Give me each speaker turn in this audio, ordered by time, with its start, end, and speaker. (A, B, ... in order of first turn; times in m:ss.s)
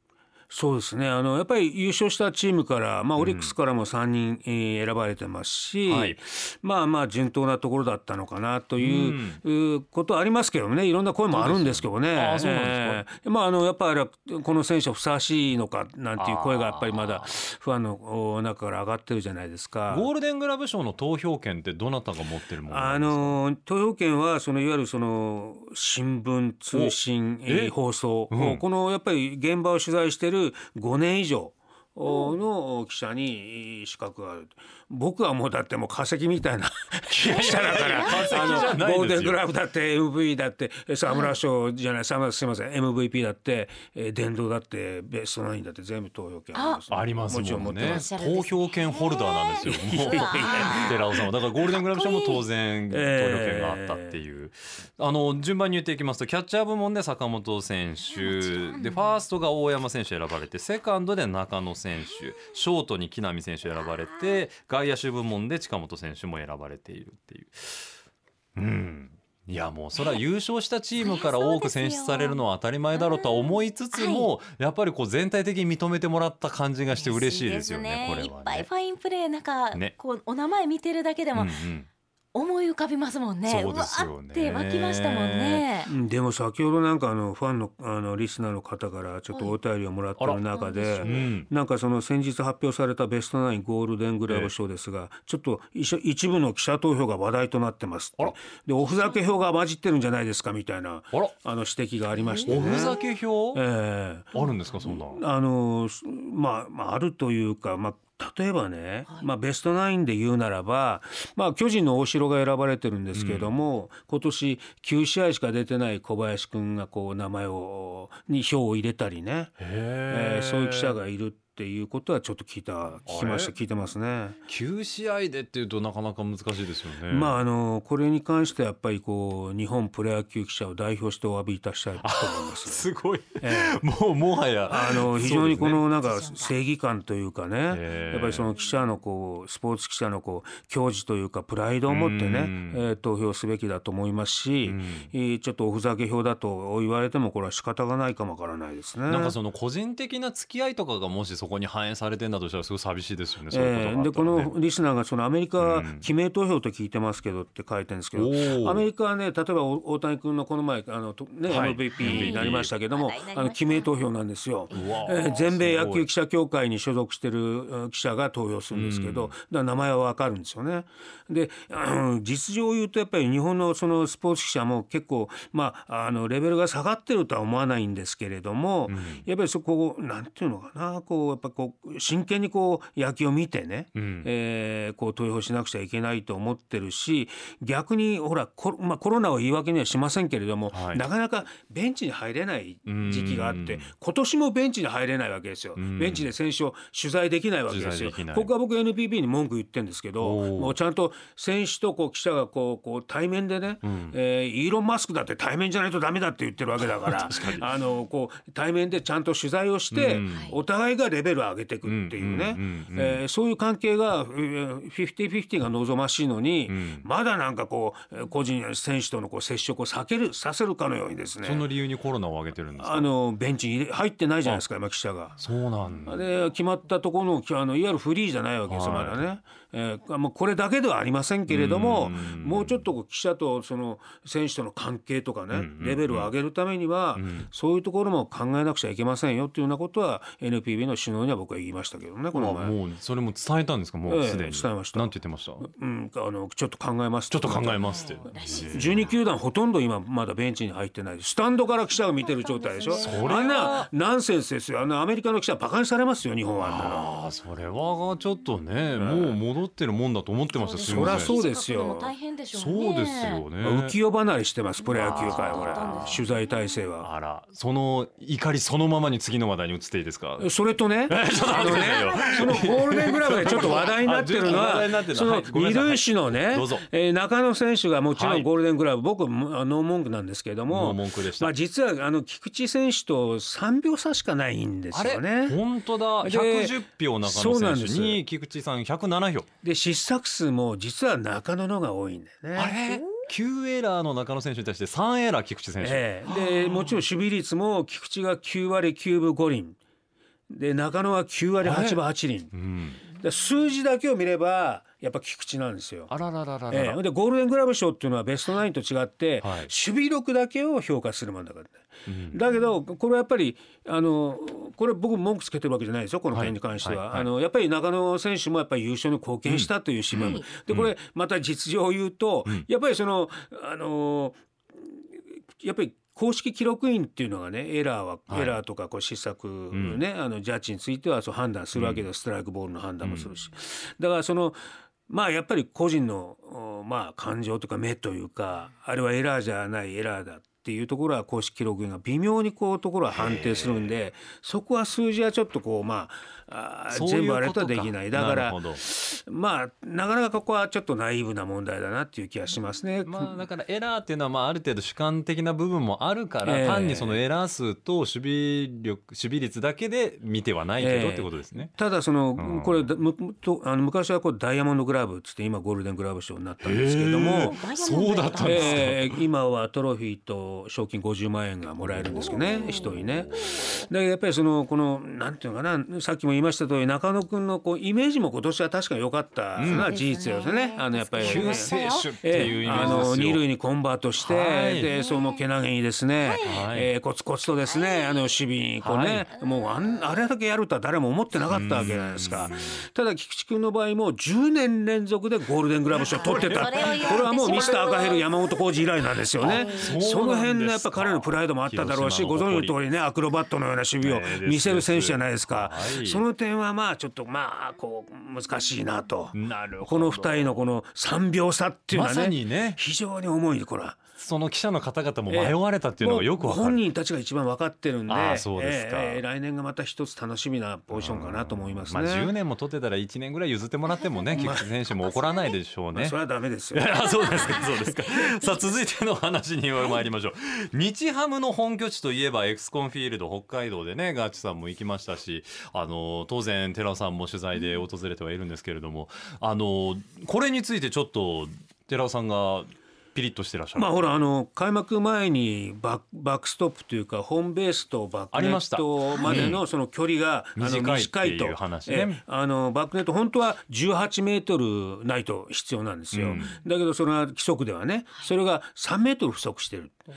0:00.5-0:20.1 A
0:03.2-0:03.6 B
0:05.8-0:06.2 B
0:08.8-0:09.4 B
0:11.3-0:13.0 B
0:16.2-0:17.3 B
0:19.9-0:23.4 B
0:22.7-0:48.1 A
0:26.7-0:27.7 B
0:28.3-0:28.6 B
0:32.1-0:32.3 C
0:37.1-0:39.4 B
0:37.3-0:38.7 C
0:41.1-0:41.3 C
0:46.5-0:46.8 C
0:46.9-1:07.9 B
0:47.7-0:51.0 C
0:49.6-0:50.9 A
0:51.6-0:52.4 C
0:52.9-0:54.1 A
0:58.0-0:59.2 C
1:03.7-1:04.4 C
1:08.5-1:18.7 B
1:11.0-1:12.4 C
1:12.9-1:14.3 C
1:16.9-1:21.6 C
1:21.3-1:21.9 B
1:22.3-1:25.9 C
1:23.4-1:25.6 B
1:25.8-1:43.0 A
1:29.3-1:29.6 C
1:30.5-1:31.3 C
1:31.0-1:31.5 B
1:34.3-1:34.5 B
1:38.8-1:39.4 C
1:42.1-1:42.9 C
1:42.5-1:43.6 B
1:43.5-1:44.3 A
1:44.3-1:45.2 B
1:44.3-1:44.8 C
1:45.0-2:04.4 A
1:53.1-1:53.5 B
1:59.6-2:01.0 B
2:03.0-2:03.5 B
2:04.5-2:07.4 B
2:07.1-2:12.9 A
2:12.0-2:15.8 B
2:13.4-2:13.8 A
2:14.7-2:29.4 A
2:15.9-2:16.5 C
2:17.7-2:18.5 B
2:21.9-2:22.8 B
2:24.6-2:25.1 B
2:29.1-2:34.5 B
2:33.5-3:41.7 A
2:35.6-2:36.0 B
2:38.1-2:38.9 B
2:41.5-2:42.7 B
2:42.0-2:44.0 C
2:44.7-2:45.4 C
2:44.7-2:46.0 B
2:48.7-2:49.3 B
2:58.9-2:59.2 B
3:03.9-3:04.3 B
3:10.7-3:11.0 B
3:12.9-3:13.9 B
3:15.8-3:16.3 B
3:17.7-3:18.5 B
3:20.2-3:20.8 B
3:23.8-3:24.2 B
3:26.8-3:27.7 B
3:29.9-3:30.5 B
3:30.2-3:30.5 C
3:31.8-3:33.2 B
3:36.7-3:37.0 B
3:41.4-3:43.1 B
3:42.8-3:45.4 A
3:45.4-3:46.2 B
3:46.0-4:02.8 A
3:48.7-3:49.2 B
3:51.5-3:52.9 B
3:55.5-3:56.3 B
3:57.1-3:57.5 B
4:02.3-4:05.7 B
4:04.0-4:07.8 A
4:07.3-4:09.1 B
4:07.8-4:09.2 C
4:08.7-4:17.1 A
4:12.1-4:13.7 C
4:12.9-4:13.9 B
4:16.6-4:21.3 B
4:19.0-4:19.4 A
4:20.5-4:23.4 C
4:20.8-4:22.1 A
4:22.5-4:23.9 B
4:23.6-4:27.1 A
4:24.8-4:26.4 C
4:24.9-4:26.2 B
4:27.0-4:30.5 B
4:30.4-4:45.6 A
4:31.1-4:36.8 B
4:31.4-4:34.0 C
4:38.1-4:38.5 B
4:40.7-4:41.5 B
4:44.9-4:49.5 B
4:46.2-4:48.2 A
4:49.6-4:52.8 A
4:52.6-4:57.0 B
4:55.8-4:59.8 A
5:00.5-5:02.5 A
5:01.6-5:02.0 B
5:02.5-5:03.0 B
5:03.1-5:06.1 A
5:06.1-5:07.0 B
5:06.7-5:24.4 A
5:09.4-5:09.7 B
5:12.0-5:12.4 B
5:16.3-5:17.3 B
5:19.4-5:20.9 B
5:20.1-5:20.5 C
5:25.6-5:53.4 A
5:28.3-5:28.6 B
5:29.7-5:30.0 B
5:31.7-5:32.1 B
5:33.0-5:33.3 B
5:43.1-5:43.9 B
5:46.9-5:48.8 B
5:53.0-6:01.8 B
5:56.4-5:57.2 A
6:00.8-6:07.6 A
6:02.4-6:02.9 B
6:06.6-6:09.2 B
6:07.3-6:08.9 C
6:08.4-6:54.0 A
6:11.8-6:13.1 B
6:12.1-6:13.8 C
6:19.6-6:19.9 B
6:19.6-6:23.1 C
6:21.2-6:23.4 B
6:24.2-6:24.9 B
6:24.9-6:25.4 C
6:26.2-6:26.7 C
6:26.4-6:26.9 B
6:27.6-6:28.4 C
6:28.8-6:29.3 B
6:29.3-6:30.1 C
6:31.5-6:32.8 B
6:31.5-6:32.8 C
6:35.9-6:40.0 C
6:36.1-6:37.8 B
6:39.4-6:42.8 B
6:44.0-6:46.2 B
6:49.3-6:50.6 B
6:51.9-6:52.8 B
6:54.2-6:56.8 B
6:55.3-7:02.3 A
6:58.1-6:59.2 B
7:00.9-7:06.2 B
7:04.0-7:04.4 C
7:04.3-7:04.7 A
7:04.9-7:05.6 C
7:05.9-7:06.9 A
7:06.7-7:24.1 B
7:07.2-7:07.7 C
7:23.8-7:40.0 A
7:28.3-7:29.6 B
7:29.1-7:29.6 C
7:30.6-7:32.2 B
7:36.1-7:36.5 B